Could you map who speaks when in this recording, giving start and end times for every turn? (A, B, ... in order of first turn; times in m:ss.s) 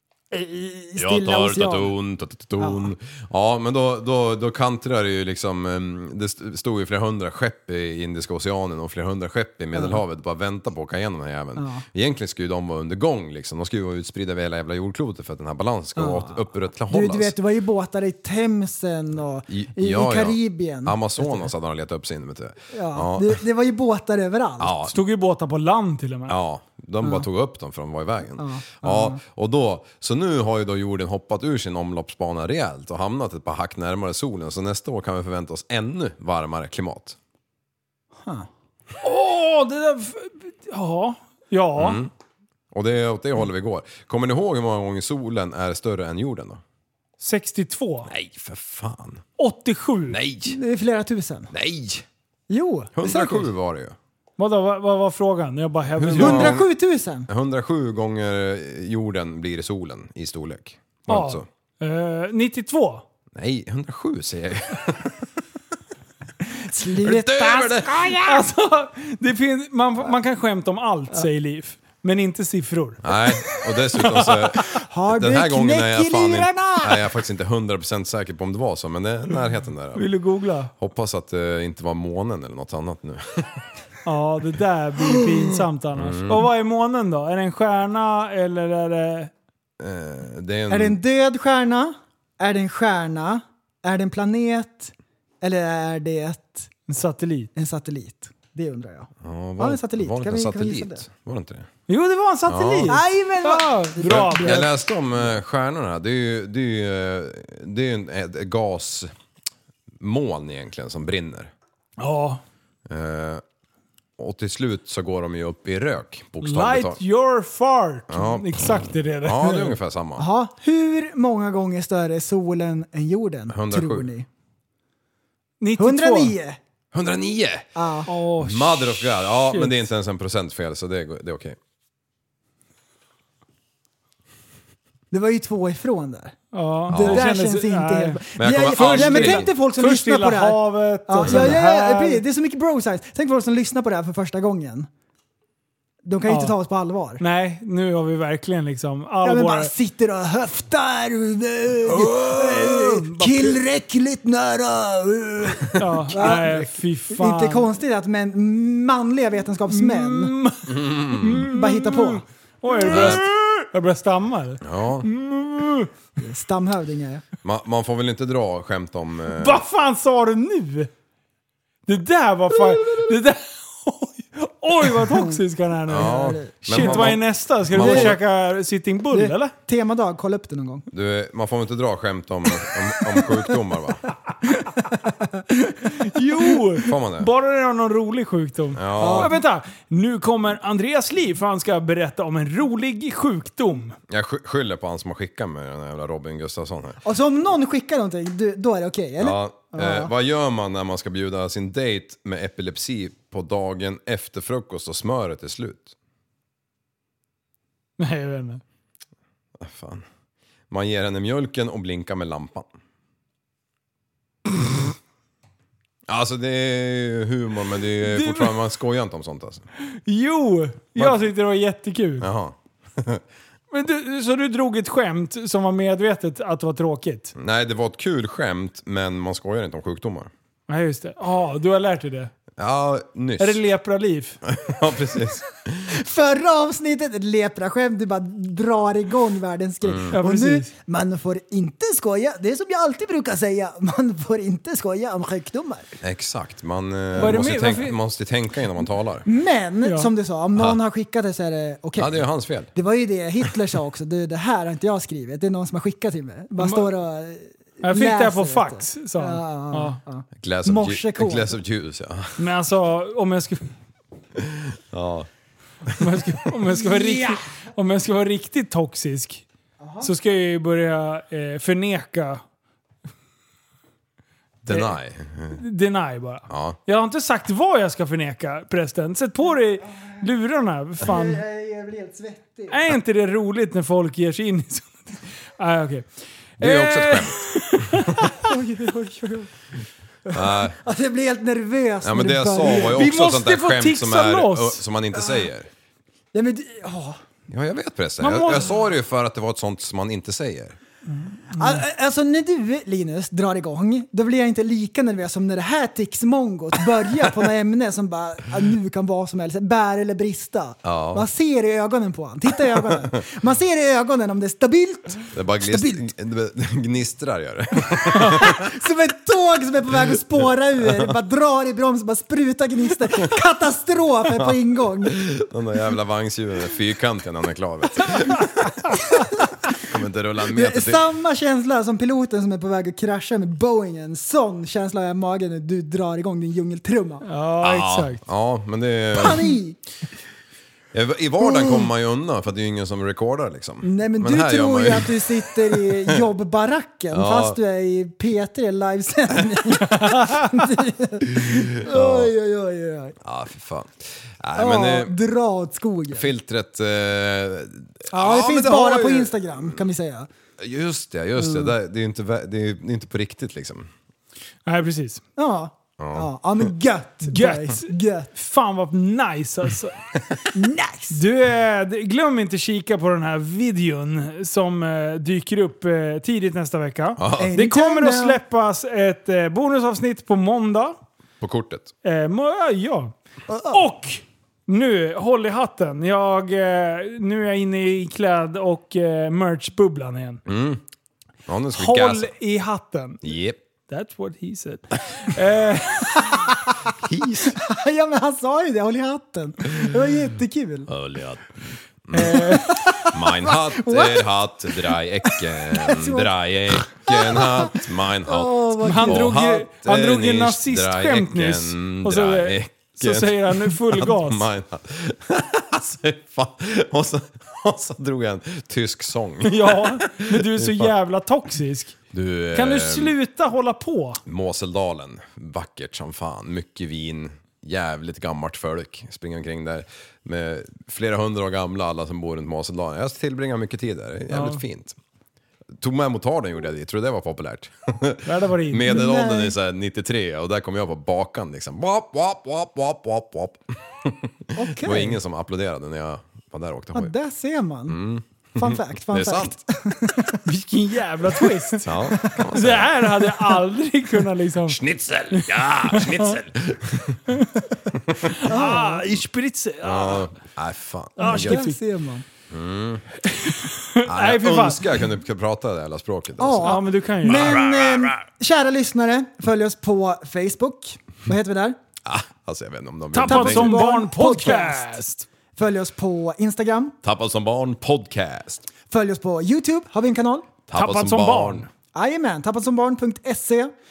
0:00.3-0:01.9 A
0:01.0-0:17.3 B
0:02.6-0:02.9 A
0:09.7-0:10.0 A
0:11.6-0:11.8 A
0:16.0-0:21.5 A
0:19.5-0:23.4 B
0:22.7-0:24.9 A
0:24.6-0:24.9 B
0:24.9-0:26.4 C
0:26.3-0:37.2 B
0:27.0-0:27.3 A
0:28.4-0:29.2 A
0:39.0-0:42.0 C
0:41.8-0:42.1 B
0:42.7-0:46.6 B
0:47.2-0:48.1 C
0:48.1-0:49.2 B
0:49.4-0:50.2 C
0:50.1-0:50.6 B
0:50.4-0:51.5 A
0:51.5-0:52.0 B
0:52.5-0:53.3 A
0:52.9-0:54.0 B
0:53.1-0:53.4 C
0:54.4-0:56.6 C
0:56.0-0:56.7 B
0:56.1-0:57.3 A
0:57.3-1:01.4 B
1:01.1-1:03.0 C
1:03.4-1:05.3 B
1:06.4-1:08.2 A
1:07.0-1:08.4 B
1:08.2-1:14.5 C
1:13.0-1:20.0 B
1:14.7-1:17.1 A
1:19.9-1:20.7 C
1:20.8-1:23.6 B
1:24.0-1:29.3 C
1:26.0-1:26.5 B
1:29.8-1:31.0 B
1:30.7-1:36.7 A
1:36.9-1:37.5 C
1:37.6-1:41.0 A
1:39.2-1:41.7 B
1:41.9-1:44.7 C
1:42.5-1:43.0 B
1:42.9-1:44.7 A
1:44.1-1:49.1 B
1:50.0-1:51.5 B
1:52.0-1:52.4 C
1:52.9-1:53.4 B
1:54.2-1:57.0 B
1:56.4-1:59.6 C
1:58.1-2:00.3 B
2:00.2-2:04.3 A
2:03.5-2:04.1 B
2:05.6-2:06.3 C
2:05.8-2:06.6 A
2:06.9-2:07.7 B
2:07.7-2:08.1 A
2:08.0-2:09.8 C
2:08.4-2:11.6 B
2:15.1-2:16.4 A
2:16.5-2:22.2 C
2:16.9-2:17.2 B
2:16.9-2:24.9 A
2:18.4-2:19.4 B
2:21.3-2:21.5 B
2:26.0-2:27.2 A
2:26.3-2:26.6 C
2:27.2-2:29.7 C
2:29.2-2:40.3 A
2:31.9-2:33.6 C
2:35.8-2:37.7 C
2:39.7-2:45.9 C
2:40.7-2:41.5 B
2:41.4-2:43.2 A
2:42.8-2:43.3 B
2:44.6-2:45.0 B
2:46.2-2:47.2 A
2:47.4-2:49.6 B
2:49.3-2:50.9 C
2:51.9-2:59.5 C
2:55.0-2:55.4 A
2:55.9-2:58.2 B
2:56.0-2:57.2 A
2:57.7-2:58.2 A
2:59.1-3:00.9 A
3:00.9-3:04.0 B
3:05.0-3:05.4 A
3:05.8-3:14.0 C
3:06.8-3:07.3 B
3:08.7-3:09.3 B
3:09.0-3:09.3 A
3:14.1-3:17.0 B
3:17.0-3:20.1 A
3:19.2-3:25.9 B
3:28.0-3:28.6 C
3:29.6-3:30.0 B
3:30.7-3:32.7 B
3:36.1-3:39.7 B
3:38.0-3:38.5 C
3:39.9-3:42.3 C
3:41.0-3:41.2 B
3:42.2-3:43.2 B
3:43.7-3:47.3 C
3:47.4-3:50.3 B
3:50.7-3:52.3 C
3:52.6-3:53.6 B
3:53.4-3:54.4 C
3:54.4-3:55.9 B
3:55.9-4:05.9 A
3:59.8-4:00.2 B
4:00.1-4:00.7 C
4:06.0-4:09.3 B
4:07.1-4:07.4 A
4:07.2-4:08.0 C
4:09.2-4:21.6 A
4:09.8-4:10.1 C
4:12.0-4:12.7 B
4:16.6-4:16.9 C
4:17.8-4:20.0 C
4:20.4-4:22.4 B
4:22.4-4:23.7 C
4:24.4-4:25.3 B
4:26.0-4:29.4 C
4:26.8-4:27.4 A
4:29.8-4:30.1 A
4:30.0-4:32.4 C
4:34.6-4:35.6 B
4:34.7-4:35.0 C
4:35.5-4:41.4 C
4:36.5-4:36.8 B
4:41.0-4:42.8 A
4:42.7-4:46.1 C
4:46.6-4:48.5 C
4:46.6-4:48.1 B
4:48.4-4:49.5 A
4:50.3-4:53.0 A
4:50.3-4:50.8 B
4:52.0-4:55.7 B
4:52.7-4:54.8 C
4:56.3-4:57.2 A
4:57.5-5:00.8 B
4:58.2-4:58.8 C
5:01.5-5:16.1 A
5:01.6-5:01.8 C
5:10.8-5:11.3 B
5:15.3-5:18.6 B
5:18.1-5:25.2 A
5:25.0-5:28.9 B
5:29.8-5:31.0 B
5:30.4-5:37.2 A
5:37.2-5:38.2 C
5:37.6-5:39.5 B
5:39.1-5:39.8 A
5:40.9-5:46.2 B
5:41.4-5:41.9 A
5:43.8-5:53.2 A
5:47.1-5:47.6 B
5:49.9-5:50.3 C
5:51.4-5:52.3 B
5:53.2-5:55.2 B
5:54.6-5:56.3 A
5:56.1-5:59.8 B
5:58.1-6:00.3 A
6:00.6-6:03.9 B
6:01.4-6:01.7 A
6:04.6-6:05.2 C
6:05.4-6:08.3 A
6:06.0-6:06.6 B
6:07.3-6:10.0 C
6:10.5-6:11.2 A
6:11.1-6:21.0 C
6:17.2-6:17.5 B
6:17.4-6:18.4 A
6:21.4-6:21.9 B
6:22.0-6:23.1 C
6:23.5-6:23.8 A
6:23.7-6:30.4 C
6:30.4-6:30.8 B
6:31.4-6:32.3 B
6:31.7-6:33.2 C
6:33.2-6:33.6 B
6:33.9-6:36.5 C
6:36.3-6:36.7 A
6:37.0-6:37.6 B
6:37.5-6:40.9 A
6:40.9-6:42.4 B
6:42.1-6:42.8 C
6:42.2-6:46.3 A
6:43.0-7:00.9 B
6:46.9-6:49.3 A
6:48.8-6:54.5 C
6:59.4-7:02.0 C
7:02.1-7:03.2 B
7:02.5-7:04.2 C
7:04.3-7:15.0 B
7:14.3-7:14.6 C
7:15.8-7:27.1 B
7:18.2-7:19.0 C
7:18.9-7:19.6 A
7:24.6-7:25.2 A
7:26.9-7:28.0 A
7:27.9-7:29.6 B
7:28.6-7:30.4 A
7:30.4-7:34.8 C
7:31.8-7:33.0 B
7:34.6-7:37.4 B
7:35.3-7:36.4 C
7:37.3-7:37.6 C
7:37.9-7:38.4 B
7:38.2-7:40.3 C
7:38.5-7:39.0 A
7:39.8-7:41.7 B
7:41.2-7:41.8 C
7:41.2-7:42.2 A
7:42.5-7:43.0 B
7:43.2-7:44.9 C
7:44.0-7:48.1 B
7:46.4-7:51.8 A
7:46.6-7:47.7 C
7:52.0-7:53.9 B
7:53.1-7:55.3 C
7:53.2-7:55.0 A
7:55.6-7:56.9 A
7:57.0-7:58.6 B
7:58.9-8:00.5 A
8:00.7-8:01.7 B
8:00.7-8:01.7 C
8:01.9-8:03.7 A